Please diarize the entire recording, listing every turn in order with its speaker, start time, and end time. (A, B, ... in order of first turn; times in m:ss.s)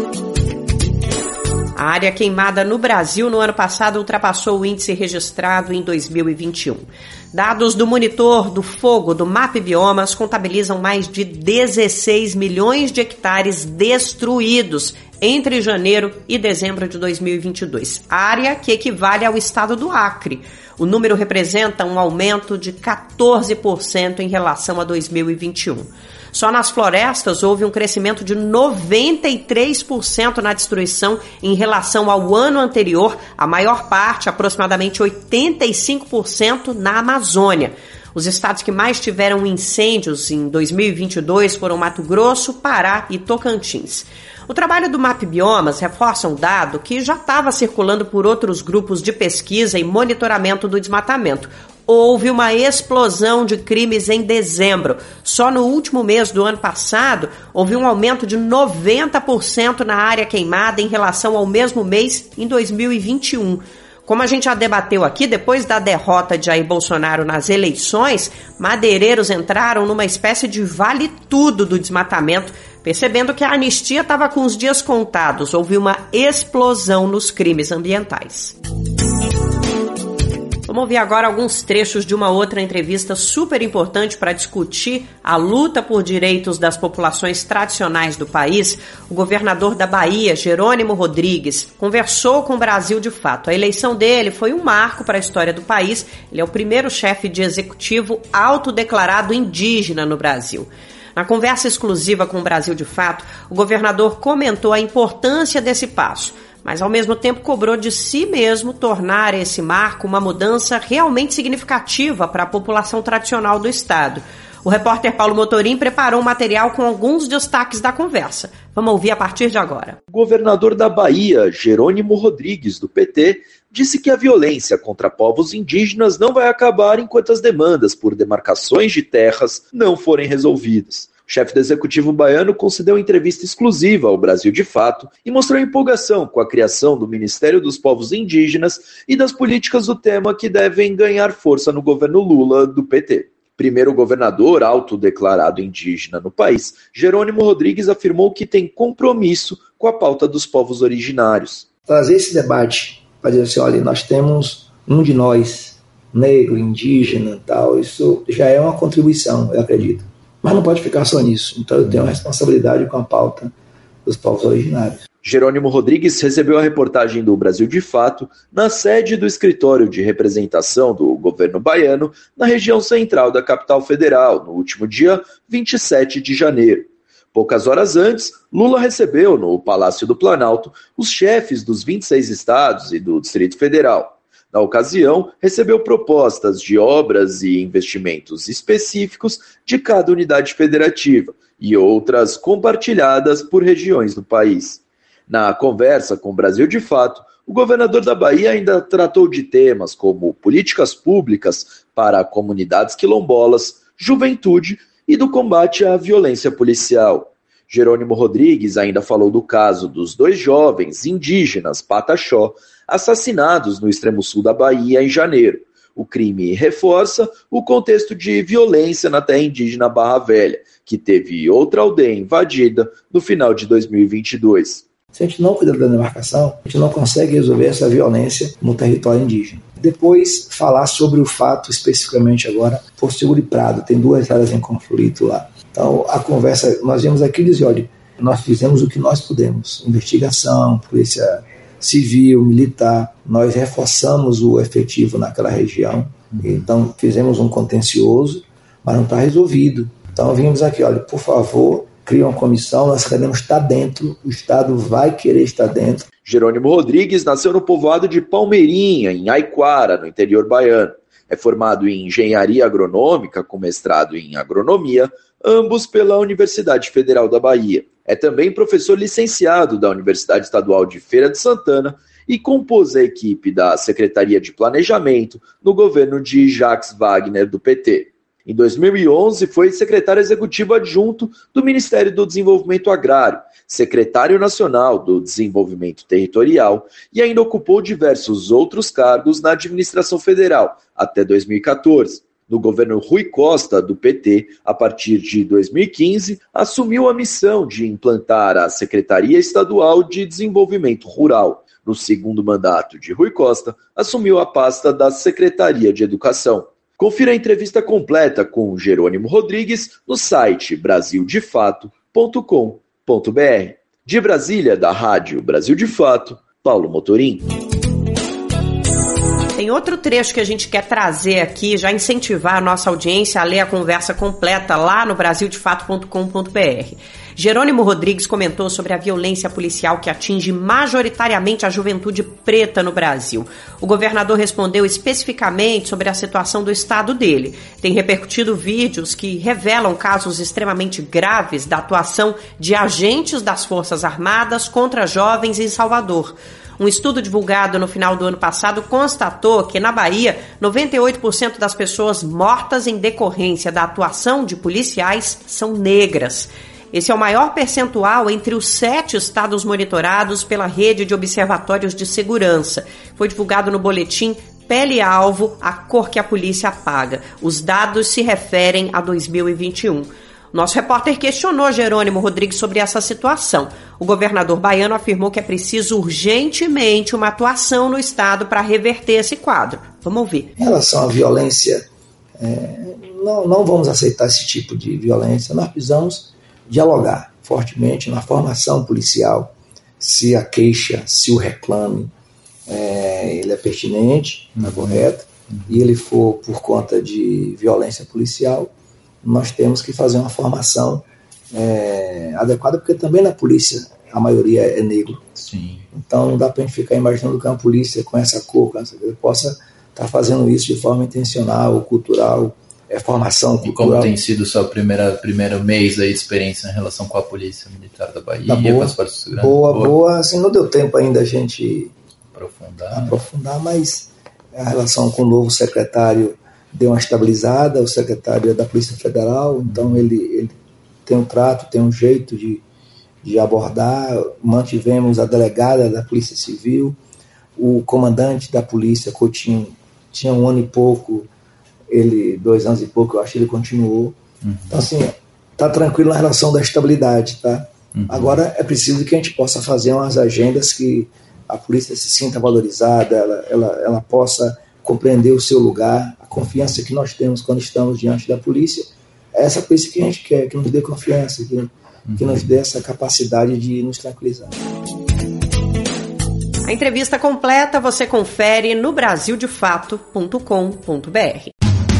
0:01.8-1:18.5 A
1:20.7-2:00.0 A
2:00.1-2:31.7 B
2:31.8-2:43.5 C
2:44.0-2:45.0 C
2:45.2-3:44.8 B
3:45.1-4:16.1 C
4:16.2-5:17.5 B
5:19.6-6:20.5 A
6:20.6-6:21.8 C
6:22.4-6:32.1 C
6:32.7-6:38.7 C
6:34.6-6:35.0 D
6:39.2-6:45.3 C
6:45.4-6:45.9 D
6:45.9-6:54.2 C
6:53.6-7:00.0 D
6:58.4-7:01.9 C
7:02.3-7:03.1 D
7:02.9-7:10.5 C
7:09.7-7:10.0 D
7:11.0-7:12.6 C
7:13.2-7:17.0 C
7:17.6-7:21.3 C
7:21.9-7:24.2 C
7:24.7-7:44.5 C
7:46.6-7:51.5 A